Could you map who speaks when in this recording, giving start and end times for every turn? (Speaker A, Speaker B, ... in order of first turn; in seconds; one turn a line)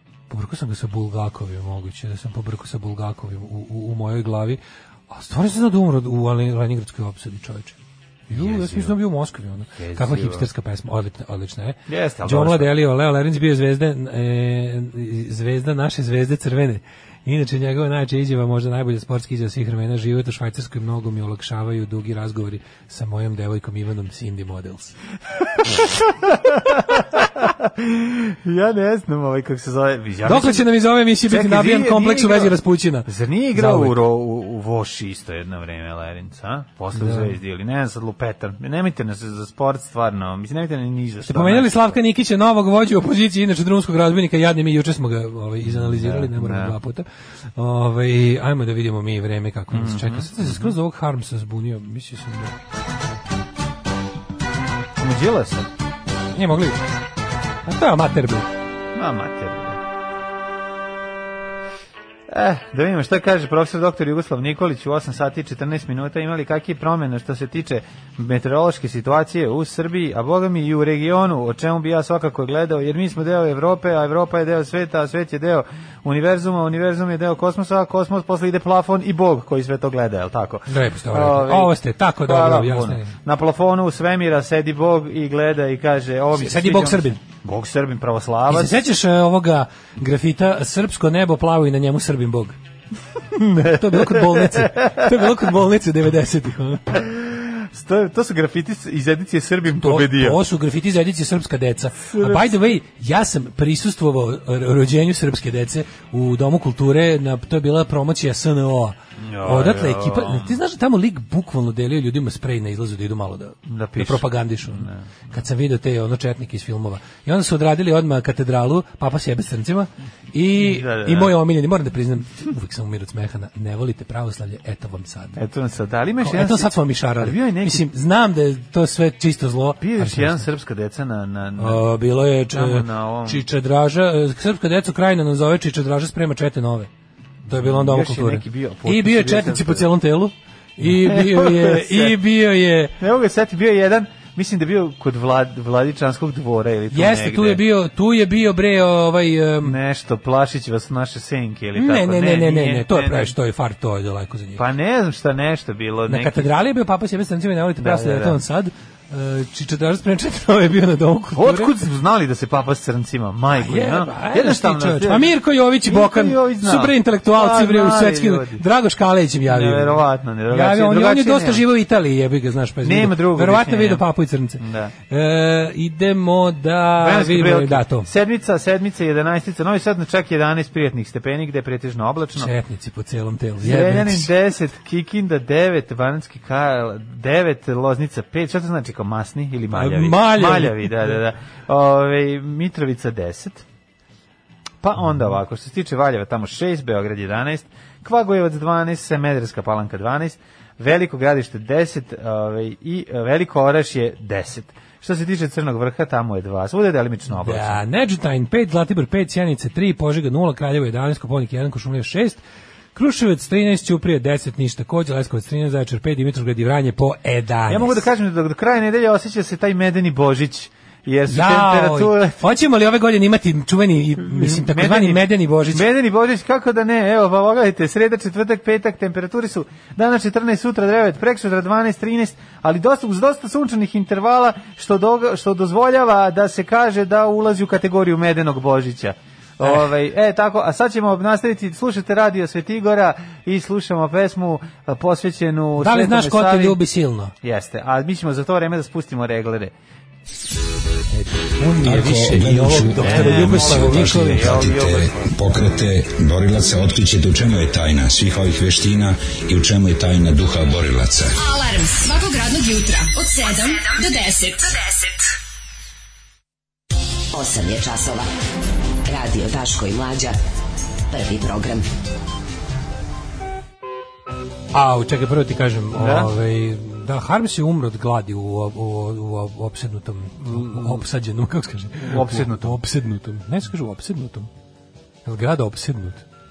Speaker A: 0.3-7.8
Speaker A: 8.3-24.9
Speaker B: 8.3-8.9
Speaker B: 9.8-10.5
Speaker B: 11.9-12.7
Speaker B: 25.6-42.0
Speaker A: 30.2-34.0
Speaker A: 36.9-37.3
Speaker A: 41.2-47.0
Speaker B: 45.6-46.8
Speaker A: 47.5-52.5
Speaker B: 49.7-50.7
Speaker B: 55.0-55.7
Speaker A: 56.3-56.8
Speaker A: 57.6-58.5
Speaker B: 58.9-59.8
Speaker B: 62.3-88.8
Speaker A: 80.7-83.1
Speaker A: 86.3-87.2
Speaker A: 88.5-92.5
Speaker B: 93.3-95.2
Speaker A: 93.7-96.9
Speaker B: 96.9-100.4
Speaker A: 99.8-125.4
Speaker B: 102.1-102.5
Speaker B: 109.2-110.6
Speaker B: 113.7-115.1
Speaker B: 120.6-121.3
Speaker B: 125.3-127.9
Speaker A: 126.2-130.4
Speaker B: 129.8-131.9
Speaker A: 131.6-136.9
Speaker B: 132.5-133.4
Speaker B: 137.5-139.9
Speaker A: 137.5-142.9
Speaker B: 140.8-142.2
Speaker B: 143.0-147.6
Speaker A: 146.9-149.8
Speaker B: 149.6-153.3
Speaker A: 151.8-154.6
Speaker B: 154.6-156.5
Speaker A: 156.1-161.7
Speaker B: 157.8-158.4
Speaker B: 161.3-168.6
Speaker A: 163.5-178.1
Speaker B: 169.5-171.6
Speaker B: 172.8-174.1
Speaker B: 174.6-174.9
Speaker B: 177.0-182.5
Speaker A: 182.3-184.3
Speaker B: 183.6-193.6
Speaker A: 189.7-191.1
Speaker B: 194.8-207.8
Speaker A: 207.3-212.4
Speaker A: 212.9-218.0
Speaker B: 217.7-222.5
Speaker A: 221.3-225.8
Speaker B: 224.2-246.8
Speaker A: 245.8-247.3
Speaker B: 247.4-249.7
Speaker A: 251.5-254.6
Speaker C: 251.8-261.4
Speaker B: 252.9-255.3
Speaker D: 261.4-265.2
Speaker E: 267.3-268.3
Speaker E: 269.0-270.4
Speaker E: 271.1-271.8
Speaker A: 274.7-284.5
Speaker B: 275.9-276.3
Speaker B: 280.4-281.0
Speaker B: 282.0-282.8
Speaker A: 285.2-286.2